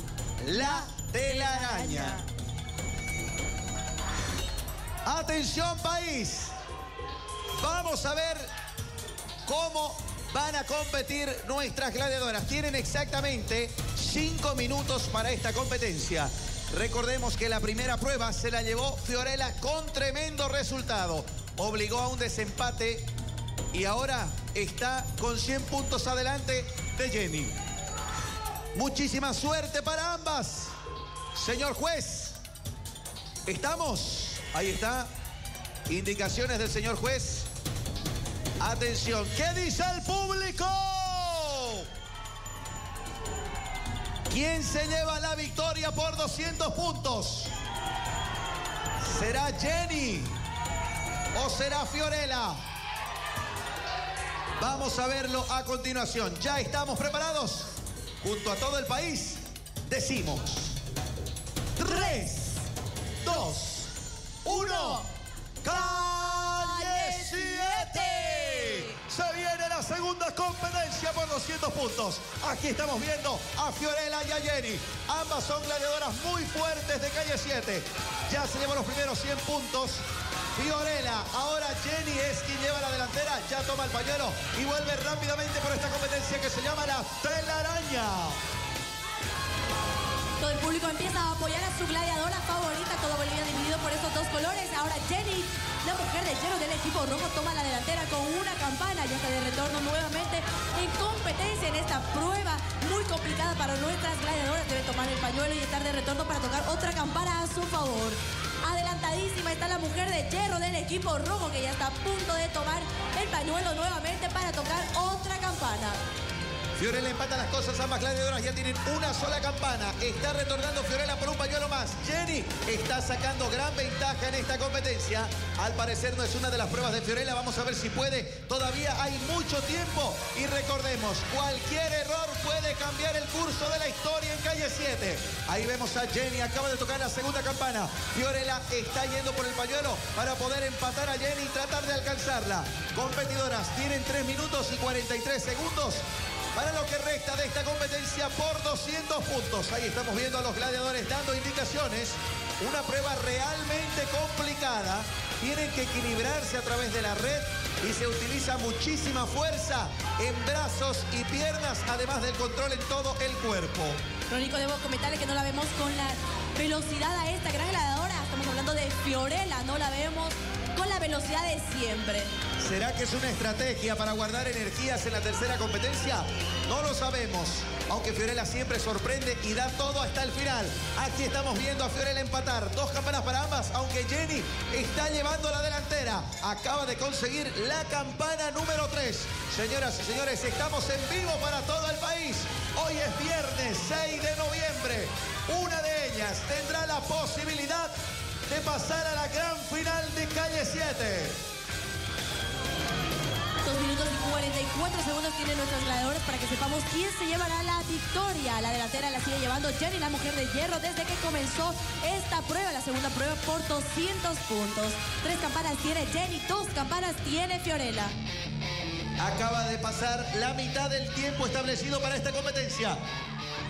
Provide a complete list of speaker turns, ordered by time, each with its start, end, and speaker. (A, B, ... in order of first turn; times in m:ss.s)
0:00.4-0:02.2 A
0:00.5-0:02.3 B
0:05.0-0:06.5 A
0:07.6-0:08.5 A
0:09.4-0:23.1 A
0:23.7-0:27.6 A
0:28.7-0:30.8 A
0:31.4-0:32.4 A
0:33.5-0:35.1 A
0:35.9-0:37.5 A
0:38.6-0:41.9 A
0:44.3-0:47.5 A
0:49.0-0:50.4 A
0:51.4-0:52.6 A
0:54.6-1:00.8 A
1:01.8-1:02.7 A
1:03.2-1:03.9 A
1:04.4-1:05.1 A
1:04.7-1:05.0 B
1:05.6-1:20.0 A
1:06.5-1:08.9 B
1:20.6-1:28.4 A
1:30.4-1:56.0 B
1:56.8-2:44.0 A
2:44.3-2:52.3 B
2:52.6-3:17.9 A
3:18.5-3:21.4 A
3:23.6-3:38.2 B
3:39.2-3:43.0 A